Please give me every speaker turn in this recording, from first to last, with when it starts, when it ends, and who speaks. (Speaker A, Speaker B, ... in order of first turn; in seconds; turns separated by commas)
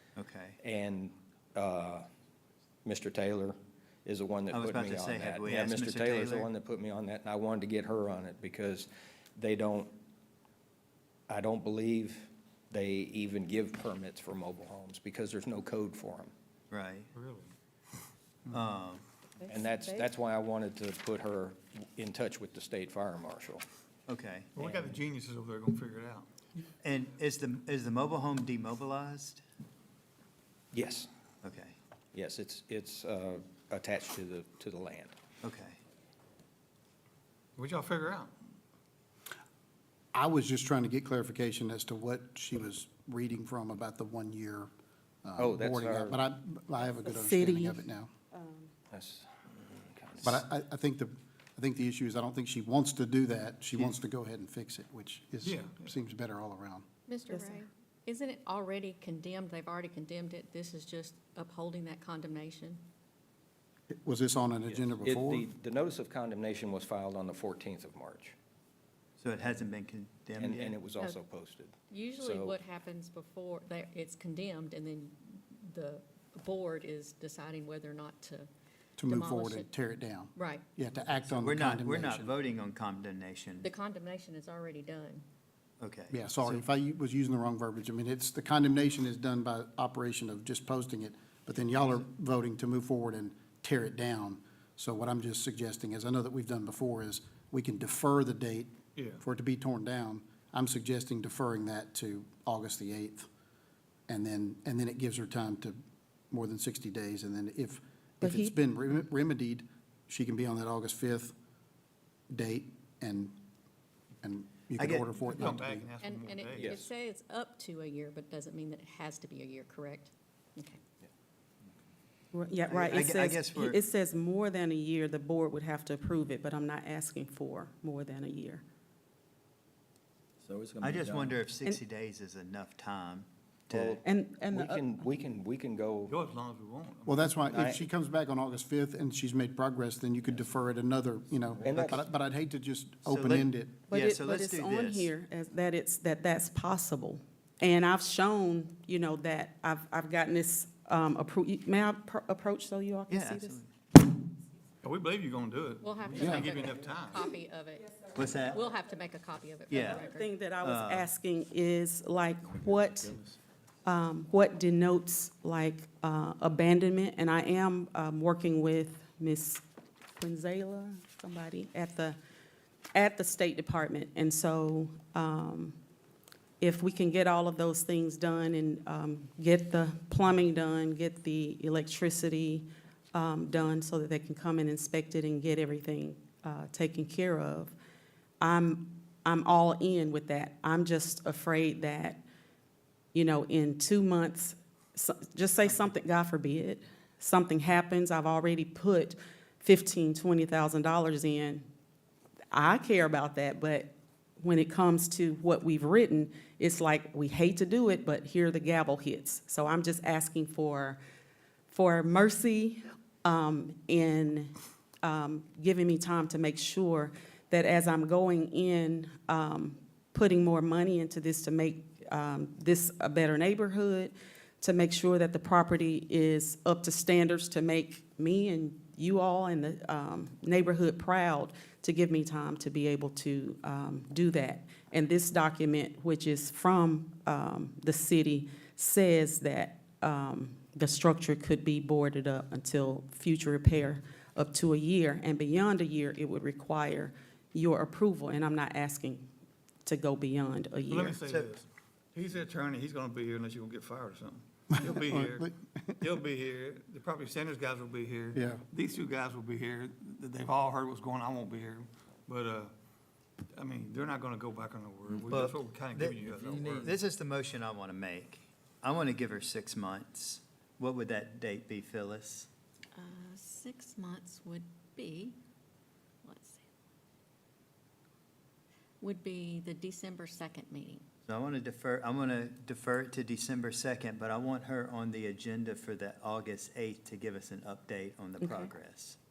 Speaker A: 0.1-0.6, Speaker B: 0.6-2.1, Speaker B: 2.8-9.9, Speaker A: 4.5-6.5, Speaker B: 11.3-16.3, Speaker A: 16.7-17.1, Speaker C: 17.1-17.5, Speaker A: 18.5-19.0, Speaker D: 19.5-20.0, Speaker B: 19.5-23.6, Speaker A: 24.1-24.5, Speaker C: 24.6-26.3, Speaker B: 24.6-24.9, Speaker A: 26.8-29.4, Speaker B: 30.7-31.1, Speaker A: 31.4-31.8, Speaker B: 32.1-35.1, Speaker A: 35.4-35.8, Speaker C: 37.6-38.3, Speaker E: 40.1-44.7, Speaker E: 45.2-48.1, Speaker B: 45.4-46.2, Speaker D: 46.8-48.7, Speaker B: 48.9-50.4, Speaker E: 50.2-56.8, Speaker C: 55.4-55.9, Speaker F: 57.1-62.8, Speaker D: 57.3-57.6, Speaker E: 63.9-65.5, Speaker B: 64.7-68.3, Speaker A: 69.2-70.8, Speaker B: 70.4-72.6, Speaker F: 71.9-78.5, Speaker E: 79.0-82.3, Speaker F: 79.0-79.7, Speaker F: 80.3-80.6, Speaker A: 81.3-83.7, Speaker F: 83.6-85.2, Speaker A: 85.8-86.6, Speaker E: 86.1-103.3, Speaker C: 99.0-99.2, Speaker E: 104.1-105.8, Speaker E: 106.3-111.3, Speaker D: 108.2-108.5, Speaker E: 112.3-113.3, Speaker E: 114.2-115.9, Speaker A: 114.8-115.1, Speaker C: 115.1-116.9, Speaker F: 116.0-120.8, Speaker B: 116.6-116.8, Speaker D: 122.3-128.6, Speaker A: 122.7-123.8, Speaker B: 130.5-131.3, Speaker A: 130.8-134.0, Speaker B: 133.7-136.2, Speaker D: 134.0-134.9, Speaker C: 136.1-137.3, Speaker E: 137.1-143.8, Speaker B: 137.4-137.8, Speaker B: 141.6-142.0, Speaker A: 143.1-145.1, Speaker D: 143.9-153.6, Speaker A: 153.1-153.7, Speaker C: 154.8-157.3, Speaker F: 155.8-160.3, Speaker A: 158.1-158.6, Speaker A: 159.7-160.1, Speaker D: 159.7-163.2, Speaker A: 160.6-161.1, Speaker D: 163.8-169.6, Speaker D: 170.2-172.2, Speaker D: 172.9-175.8, Speaker D: 176.6-187.7, Speaker D: 188.4-192.2, Speaker D: 193.1-201.7, Speaker D: 202.5-211.0, Speaker D: 211.7-249.3, Speaker D: 249.8-251.2, Speaker C: 250.9-255.5, Speaker E: 254.7-255.9, Speaker C: 256.0-262.7, Speaker E: 258.3-258.6, Speaker C: 263.5-266.9, Speaker A: 265.2-272.5, Speaker F: 272.9-275.4, Speaker F: 276.2-276.6, Speaker F: 279.0-281.0, Speaker A: 281.3-289.2, Speaker D: 288.4-288.7